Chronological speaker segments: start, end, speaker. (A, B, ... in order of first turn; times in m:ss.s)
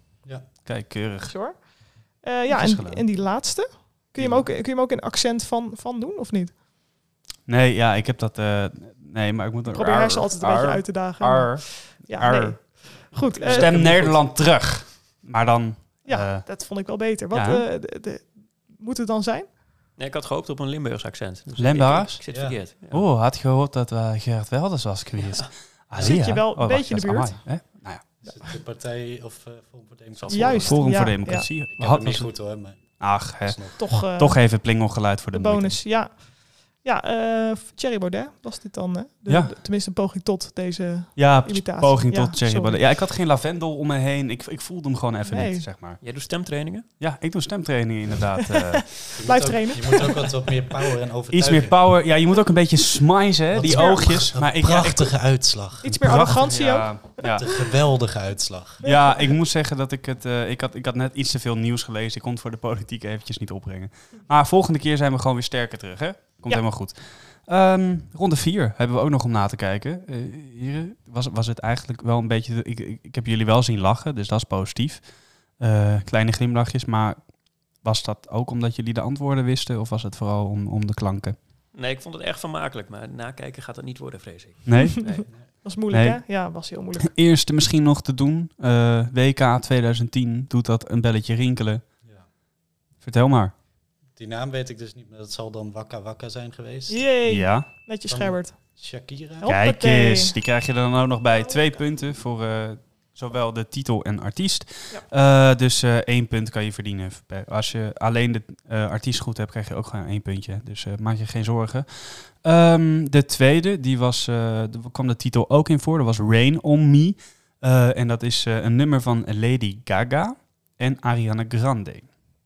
0:00.4-0:01.3 A
0:01.3-0:06.5 B
0:02.5-0:03.0 A
0:04.2-0:04.4 A
0:07.5-0:12.8 A
0:09.7-0:13.9 B
0:13.3-0:14.2 C
0:13.4-0:16.5 A
0:16.0-0:19.5 B
0:17.3-0:17.6 A
0:20.0-0:23.0 C
0:21.6-0:22.2 A
0:22.3-0:22.6 D
0:22.9-0:28.0 A
0:26.0-0:27.4 B
0:28.2-0:31.1 D
0:30.2-0:30.7 C
0:30.3-0:31.5 B
0:30.6-0:32.3 A
0:31.7-0:33.8 D
0:33.0-0:35.8 A
0:33.8-0:34.4 B
0:35.3-0:42.8 B
0:39.3-0:39.5 A
0:41.2-0:46.0 A
0:45.3-0:45.6 B
0:46.0-0:46.9 C
0:47.0-0:49.1 A
0:48.6-0:50.7 B
0:49.1-0:51.8 D
0:51.3-0:55.2 A
0:53.5-0:56.4 D
0:53.6-0:54.0 B
0:55.8-0:57.2 B
0:55.9-0:57.5 A
0:57.4-0:58.8 D
0:58.8-1:15.0 A
0:58.8-0:59.3 B
1:15.6-1:17.2 A
1:17.8-1:21.4 A
1:21.7-1:25.2 C
1:24.6-1:25.0 A
1:25.2-1:27.1 B
1:25.9-1:26.2 A
1:27.0-1:31.8 A
1:33.0-1:33.5 A
1:34.1-1:37.0 D
1:36.9-1:38.6 B
1:37.2-1:37.7 A
1:38.1-1:39.5 D
1:39.4-1:40.4 B
1:39.4-2:02.1 A